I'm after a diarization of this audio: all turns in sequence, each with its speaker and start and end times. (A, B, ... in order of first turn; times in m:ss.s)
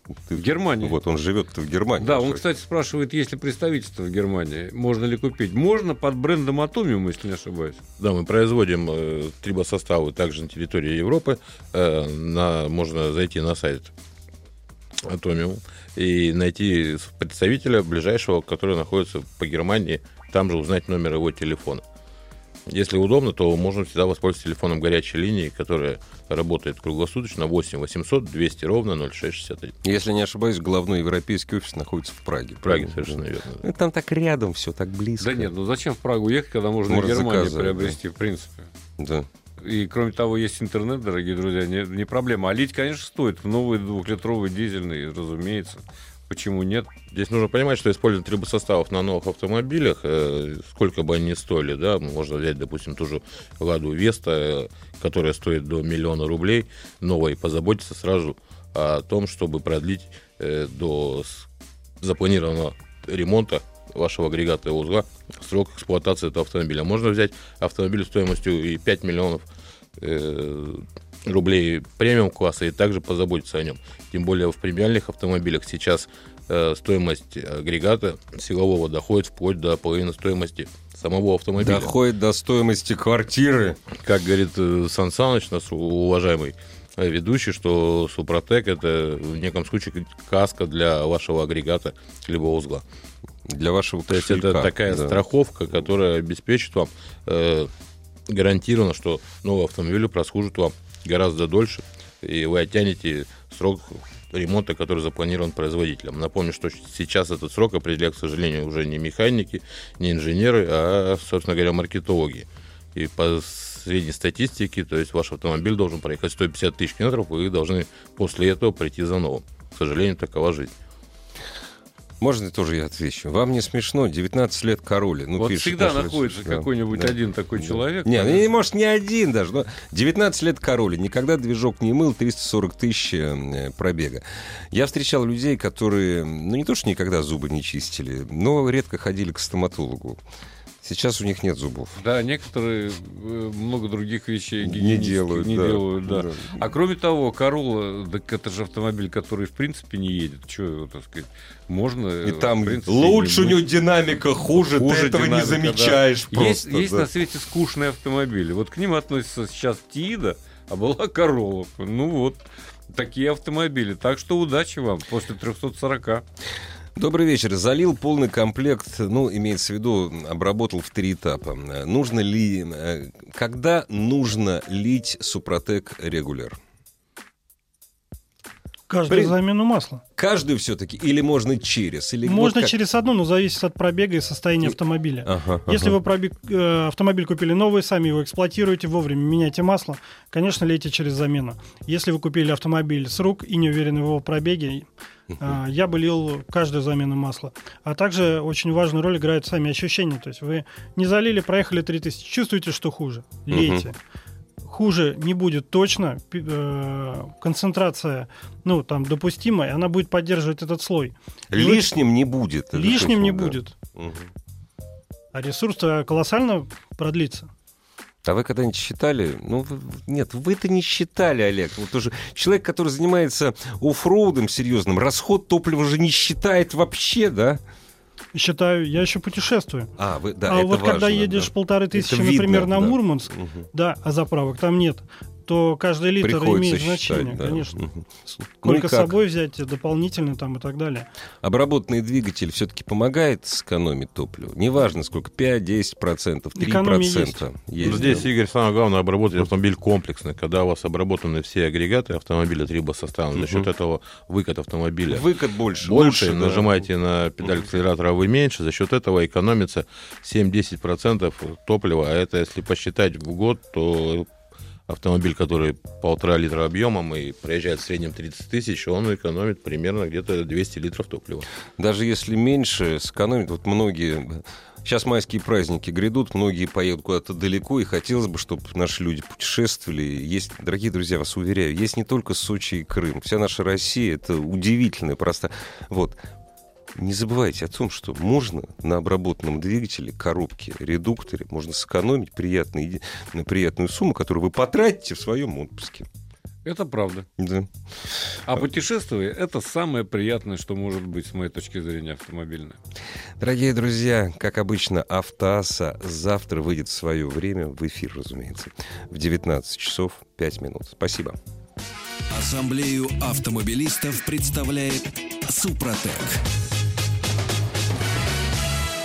0:00.3-0:02.4 A
0:00.3-0:01.0 B
0:02.0-0:07.8 B
0:08.0-0:13.9 C
0:15.0-0:21.8 C
0:22.7-0:29.7 C
0:29.8-0:35.5 A
0:32.6-0:33.6 C
0:35.2-0:38.7 B
0:36.9-0:38.0 A
0:39.0-0:39.3 A
0:39.6-0:46.9 B
0:47.1-1:01.5 C
1:02.0-1:09.4 C
1:10.0-1:21.9 C
1:21.6-1:23.8 A
1:24.0-1:32.8 C
1:33.5-1:35.2 A
1:34.1-1:37.7 C
1:38.3-2:00.7 C
2:02.2-2:07.2 A
2:05.4-2:08.5 B
2:07.7-2:20.2 A
2:20.8-2:22.0 A
2:22.0-2:33.6 B
2:24.6-2:26.6 A
2:32.2-2:37.1 A
2:34.7-2:46.2 B
2:47.0-2:56.6 A
2:58.9-3:00.0 D
2:59.1-2:59.4 A
3:00.2-3:02.8 A
3:02.2-3:14.8 D
3:04.6-3:06.0 A
3:15.4-3:24.0 D
3:23.5-3:23.9 A
3:24.6-3:31.9 D
3:31.5-3:34.3 A
3:32.7-3:33.7 D
3:35.3-3:37.5 D
3:38.2-3:47.6 A
3:48.3-3:49.9 D
3:50.0-3:53.7 A
3:50.4-4:01.1 D
3:56.2-3:58.0 A
3:58.6-3:59.2 A
4:01.4-4:08.3 A
4:06.6-4:07.4 D
4:07.8-4:15.2 C
4:13.4-4:13.7 A
4:15.1-4:16.8 A
4:15.8-4:24.3 C
4:24.9-4:31.4 C
4:31.8-4:46.2 A
4:46.9-4:56.1 A
4:56.6-4:57.2 B
4:57.4-4:57.7 A
4:58.5-5:02.8 B
5:03.4-5:11.4 A
5:12.3-5:16.4 E